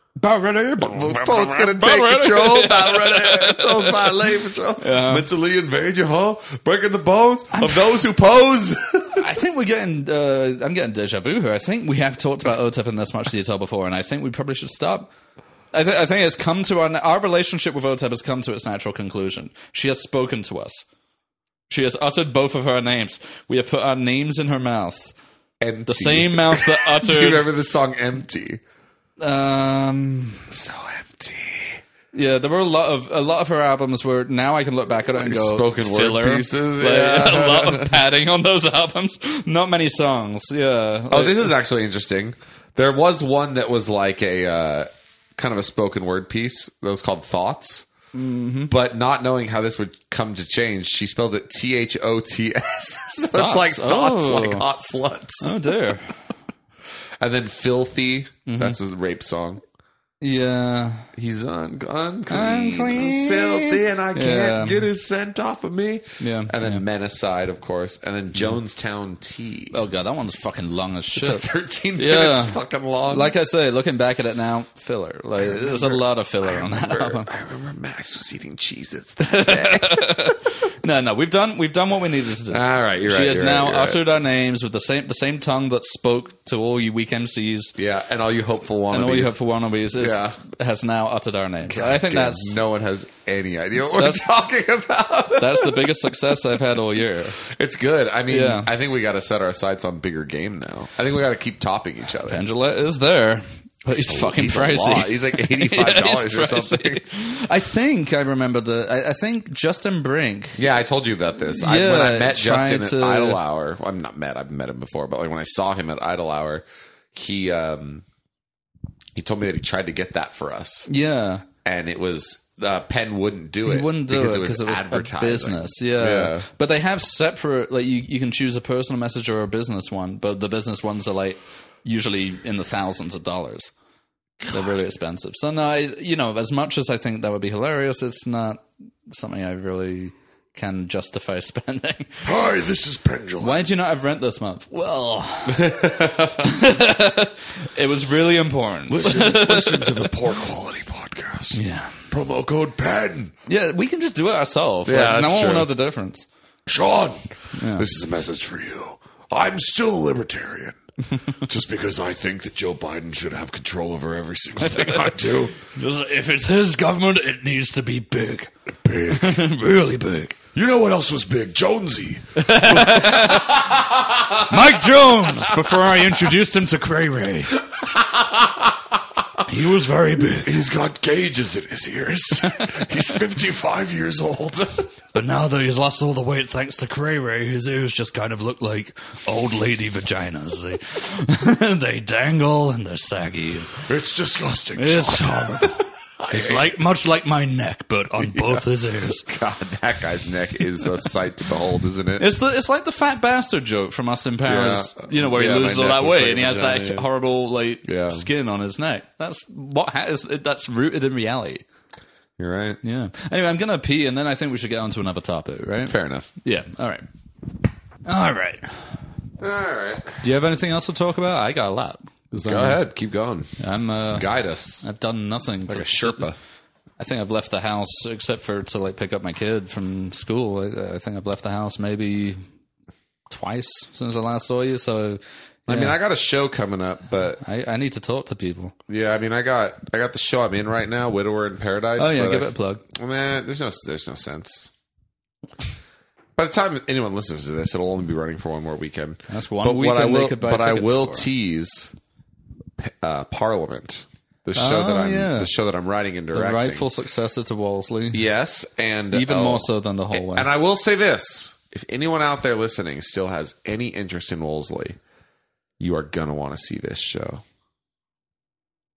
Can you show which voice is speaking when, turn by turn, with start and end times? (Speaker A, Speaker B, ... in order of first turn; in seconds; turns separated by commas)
Speaker A: 0.2-5.3, Speaker B: 0.8-9.4, Speaker A: 7.5-8.0, Speaker A: 9.2-15.1, Speaker A: 15.7-20.9, Speaker A: 21.7-25.1, Speaker B: 25.6-28.6, Speaker A: 25.9-27.5, Speaker A: 29.2-30.5, Speaker B: 30.5-31.8, Speaker A: 32.1-41.5, Speaker B: 35.1-38.0, Speaker B: 41.1-47.9, Speaker A: 48.1-48.8, Speaker B: 48.7-55.5, Speaker A: 53.2-54.7, Speaker A: 55.4-56.2, Speaker B: 57.2-59.6, Speaker A: 58.5-58.8, Speaker A: 60.2-61.1, Speaker B: 61.1-69.8, Speaker A: 62.3-64.9, Speaker A: 66.2-66.8, Speaker A: 69.7-71.5, Speaker B: 71.2-73.3, Speaker A: 72.0-77.3, Speaker B: 75.4-80.4, Speaker A: 79.3-87.8, Speaker B: 82.5-84.0, Speaker B: 87.8-89.4, Speaker A: 88.9-92.6, Speaker B: 90.0-90.4, Speaker B: 91.7-96.1, Speaker A: 93.9-94.3, Speaker A: 95.4-97.4, Speaker B: 97.4-102.4, Speaker A: 98.3-98.7, Speaker A: 102.3-110.6, Speaker B: 103.9-107.0, Speaker B: 110.6-118.0, Speaker A: 111.5-113.4, Speaker B: 119.2-120.9, Speaker A: 120.9-121.5, Speaker B: 121.6-126.5, Speaker A: 123.7-133.7, Speaker A: 134.5-142.2, Speaker C: 142.2-143.6, Speaker A: 143.4-150.1, Speaker B: 145.5-146.5, Speaker C: 148.9-153.3, Speaker A: 151.5-152.1, Speaker A: 153.5-156.3, Speaker B: 154.9-155.7, Speaker C: 156.7-160.8, Speaker A: 157.6-157.9, Speaker C: 161.4-165.6, Speaker A: 164.6-165.1, Speaker A: 165.8-168.5, Speaker C: 168.8-169.4, Speaker A: 169.1-170.4, Speaker C: 170.5-173.6, Speaker A: 172.4-173.8, Speaker A: 174.4-177.6, Speaker B: 177.9-178.7, Speaker A: 179.4-180.6, Speaker C: 180.2-184.9, Speaker A: 185.1-193.8, Speaker C: 193.9-195.8, Speaker A: 194.8-199.3, Speaker B: 196.3-196.6, Speaker B: 198.2-198.7, Speaker B: 199.2-202.3, Speaker A: 202.2-211.6, Speaker B: 204.4-207.1, Speaker B: 207.8-208.3, Speaker B: 212.4-212.8, Speaker A: 212.8-217.0, Speaker B: 215.9-216.3, Speaker A: 218.1-219.0, Speaker B: 219.4-220.2, Speaker A: 220.2-222.8, Speaker B: 222.4-223.6, Speaker A: 223.6-224.3, Speaker B: 224.1-224.8, Speaker A: 224.8-226.3, Speaker B: 225.7-226.4, Speaker A: 227.0-232.4, Speaker A: 233.3-236.0, Speaker B: 235.7-237.4, Speaker A: 237.4-238.7, Speaker B: 238.9-244.7, Speaker A: 242.0-242.8, Speaker B: 246.4-251.9, Speaker A: 249.3-251.3, Speaker B: 252.8-256.9, Speaker A: 254.6-255.5, Speaker A: 256.3-258.2, Speaker B: 258.1-265.0, Speaker A: 259.1-260.5, Speaker B: 265.8-267.4